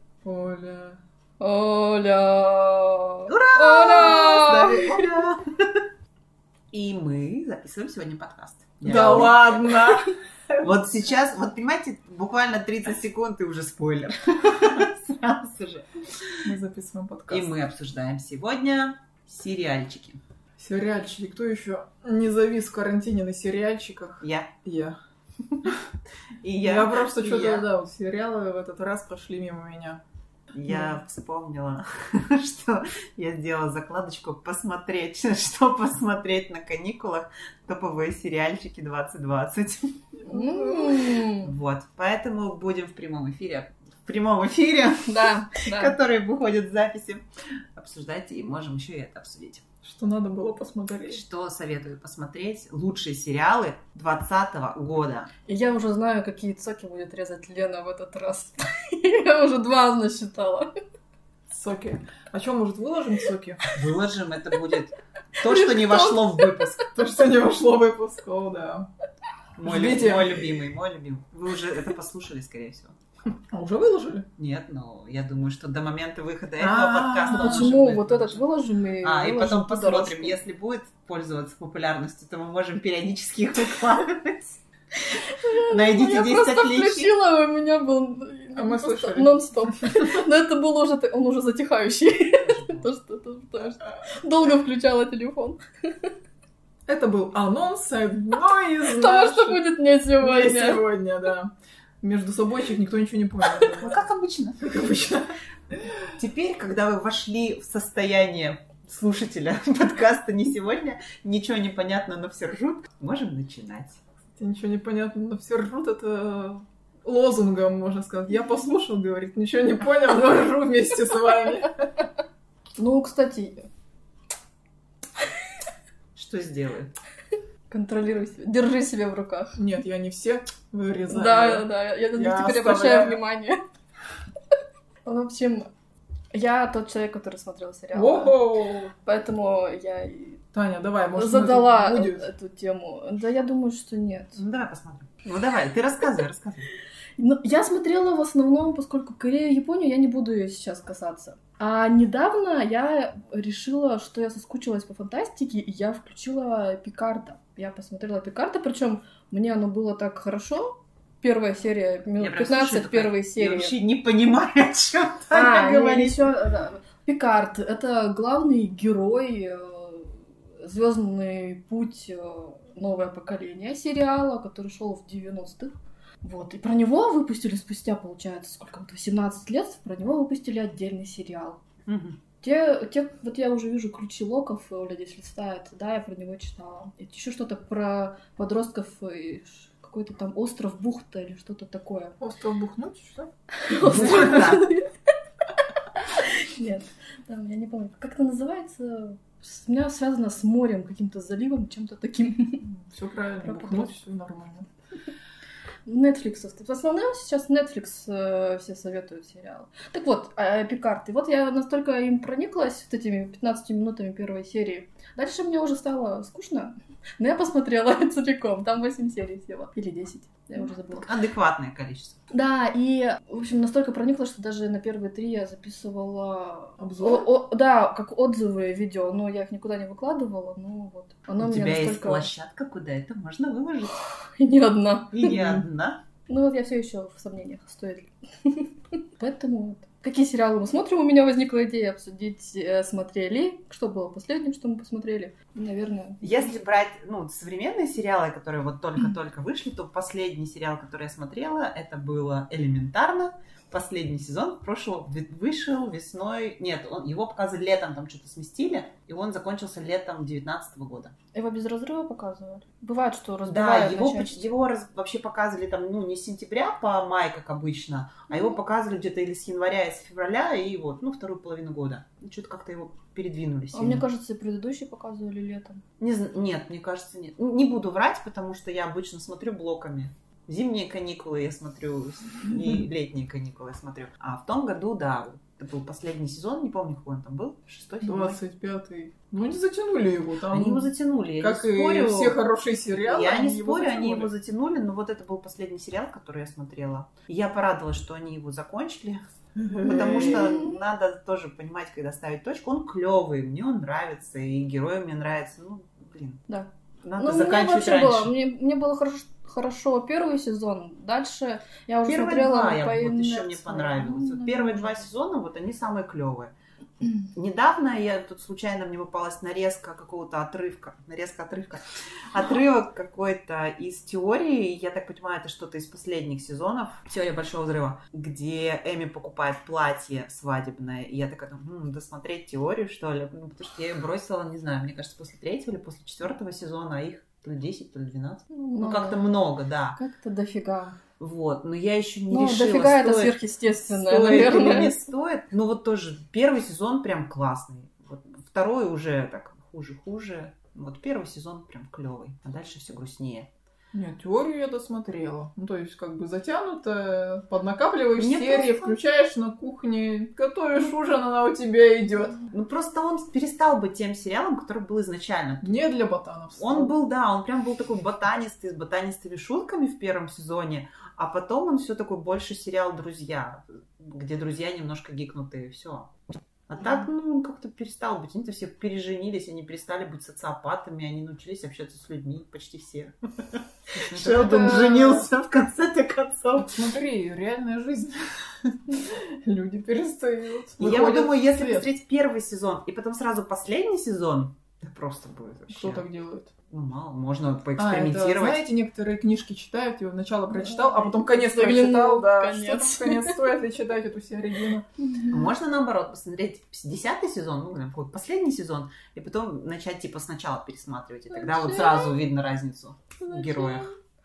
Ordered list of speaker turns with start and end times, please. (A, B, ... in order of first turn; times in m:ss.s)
0:00.2-0:01.0 A
0:01.4-0:05.0 B
0:03.3-0:05.8 C
0:06.7-0:09.6 C
0:08.8-0:10.1 A
0:08.9-0:09.4 B
0:10.6-0:16.4 C
0:16.4-0:17.6 A
0:17.3-0:20.2 C
0:20.6-0:25.0 A
0:24.2-0:24.5 C
0:25.4-0:25.8 C
0:26.4-0:27.7 C
0:26.6-0:30.0 A
0:30.5-0:40.0 C
0:30.7-0:31.0 A
0:40.2-0:41.2 A
0:40.3-0:41.5 B
0:41.4-0:49.6 C
0:45.0-0:46.0 B
0:49.8-0:51.2 A
0:51.1-0:55.3 C
0:55.5-1:00.7 B
1:01.5-1:03.8 A
1:03.7-1:07.0 C
1:05.4-1:06.6 B
1:06.9-1:08.9 A
1:09.6-1:13.0 C
1:09.6-1:10.5 A
1:13.3-1:14.3 A
1:14.4-1:18.4 C
1:16.6-1:17.7 A
1:17.2-1:20.4 B
1:19.0-1:24.6 C
1:25.1-1:36.1 B
1:25.7-1:27.1 C
1:28.6-1:30.1 A
1:32.3-1:32.9 C
1:36.9-1:39.6 A
1:38.8-1:40.8 B
1:40.2-1:44.0 A
1:43.7-1:45.3 C
1:46.2-1:54.0 C
1:54.4-2:01.9 A
2:02.8-2:03.6 B
2:06.1-2:06.9 C
2:07.7-2:09.6 B
2:09.6-2:13.2 A
2:11.1-2:13.6 B
2:15.0-2:15.7 B
2:16.3-2:18.4 B
2:17.9-2:18.9 A
2:19.0-2:20.4 B
2:20.5-2:22.3 A
2:21.2-2:24.4 B
2:24.3-2:26.7 C
2:27.2-2:43.7 B
2:42.2-2:46.3 C
2:45.3-2:50.1 B
2:50.6-3:01.6 B
3:01.8-3:02.2 C
3:02.4-3:12.2 B
3:12.2-3:13.3 A
3:13.5-3:14.9 B
3:13.8-3:14.7 C
3:16.0-3:22.6 B
3:22.6-3:24.6 A
3:23.4-3:23.9 B
3:25.8-3:41.1 B
3:41.0-3:42.2 C
3:42.3-3:52.3 B
3:46.8-3:47.3 A
3:51.4-3:54.0 C
3:54.4-3:55.3 B
3:55.1-3:56.0 C
3:55.2-3:55.6 A
3:56.3-4:06.6 B
4:06.2-4:21.1 C
4:21.3-4:24.5 B
4:23.4-4:34.0 C
4:33.7-4:35.8 B
4:36.0-4:48.4 C
4:48.0-4:54.3 A
4:50.5-4:52.4 C
4:53.0-4:59.2 C
4:59.6-5:00.6 A
4:59.8-5:06.4 C
5:00.2-5:00.8 B
5:06.5-5:15.0 B
5:07.0-5:08.3 C
5:12.0-5:40.0 C
5:38.5-5:39.4 B
5:39.9-5:41.0 B
5:41.2-5:53.5 C
5:42.3-5:44.9 B
5:44.2-5:44.9 A
5:53.9-6:02.4 A
5:58.2-5:59.0 C
6:02.5-6:05.7 C
6:05.6-6:06.9 A
6:06.6-6:26.7 C
6:24.2-6:25.2 B
6:24.2-6:25.1 A
6:26.6-6:31.9 A
6:30.8-6:36.0 C
6:35.7-6:36.5 A
6:36.7-6:38.6 C
6:37.8-6:44.9 A
6:40.6-6:43.4 B
6:45.0-6:45.5 B
6:45.3-6:53.9 C
6:51.3-6:52.2 B
6:53.2-6:53.9 B